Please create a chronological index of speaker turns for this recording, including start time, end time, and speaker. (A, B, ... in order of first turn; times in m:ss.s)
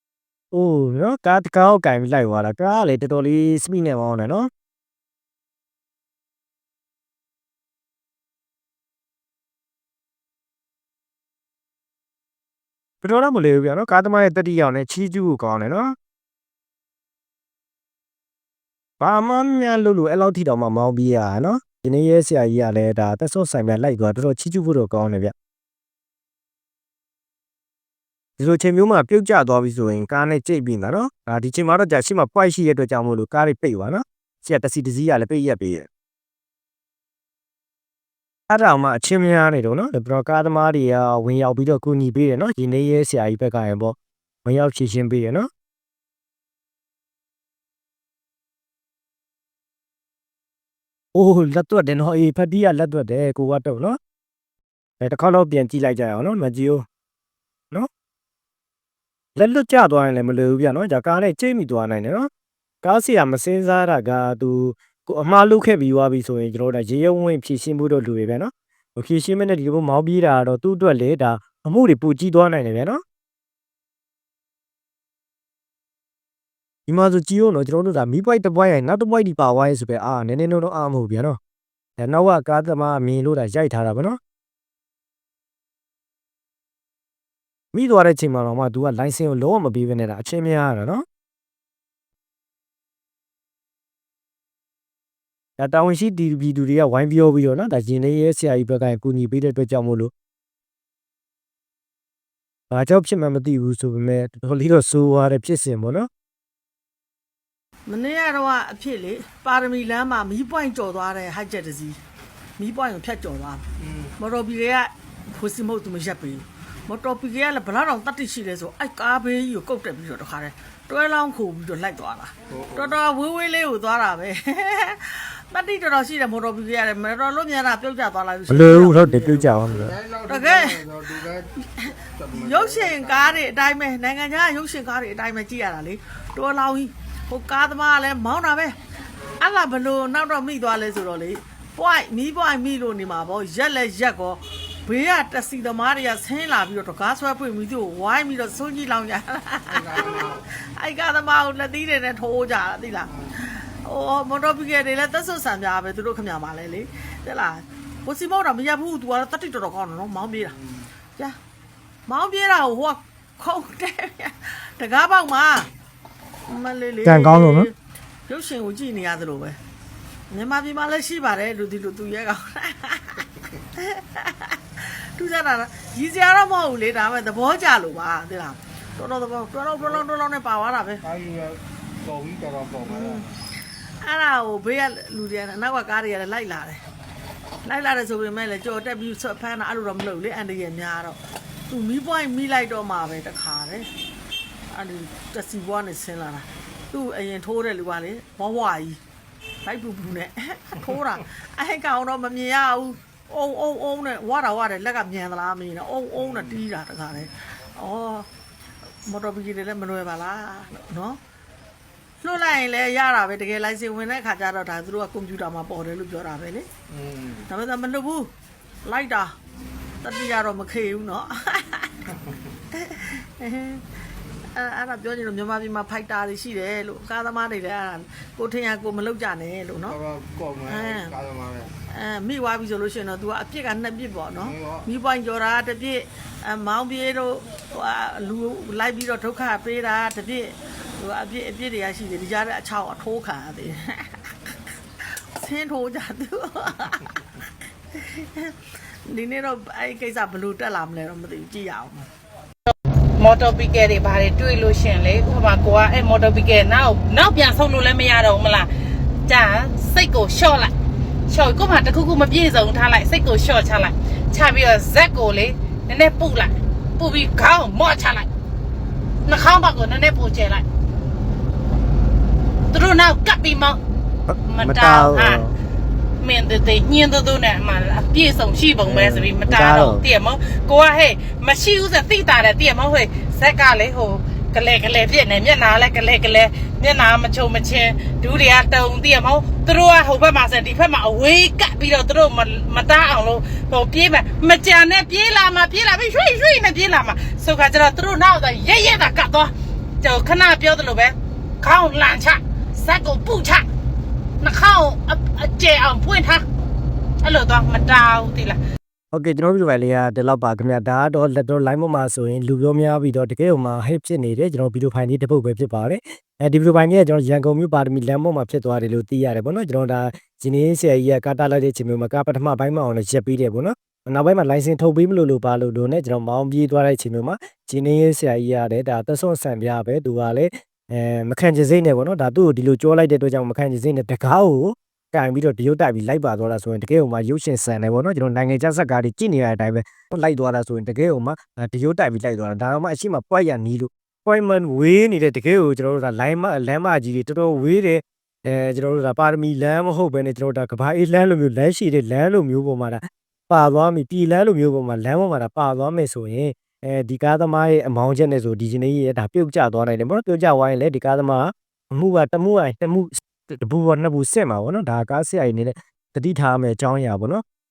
0:00.5-0:04.5 A
0:13.0-0:16.0 A
0:19.0-0:25.3 A
0:28.4-0:35.9 A
0:38.5-0:45.5 A
0:51.2-0:54.0 A
0:55.0-0:56.8 A
0:59.4-1:02.3 A
1:02.8-1:13.0 A
1:16.9-1:21.4 A
1:22.0-1:24.2 A
1:27.7-1:31.0 A
1:35.6-1:40.1 A
1:42.7-1:46.1 A
1:47.9-1:52.0 B
1:52.6-1:53.6 B
1:54.2-2:09.4 B
2:08.5-2:10.0 A
2:09.8-2:11.5 C
2:10.2-2:18.7 B
2:12.2-2:12.9 C
2:19.4-2:40.6 B
2:29.8-2:30.4 C
2:42.1-2:45.7 B
2:46.5-2:47.7 B
2:47.0-2:47.7 A
2:48.3-2:49.6 B
2:50.3-3:01.1 B
3:01.1-3:03.2 C
3:02.8-3:03.3 B
3:04.0-3:06.8 B
3:07.6-3:11.2 B
3:11.7-3:13.9 B
3:14.7-3:19.0 B
3:19.6-3:28.3 B
3:29.0-3:31.2 B
3:32.2-3:36.7 B
3:37.4-3:38.3 B
3:38.8-3:39.3 B
3:40.0-3:42.0 B
3:42.7-3:43.8 B
3:44.5-3:50.0 B
3:50.0-3:51.7 C
3:50.7-3:51.2 B
3:51.9-4:12.1 B
4:13.2-4:18.7 D
4:19.3-4:20.7 D
4:21.3-4:28.3 D
4:29.2-4:30.6 D
4:32.7-4:33.8 D
4:34.3-4:35.6 A
4:34.5-4:35.4 D
4:36.2-5:03.7 D
4:38.8-4:40.0 A
5:04.4-5:06.4 D
5:07.2-5:08.6 D
5:09.1-6:07.4 A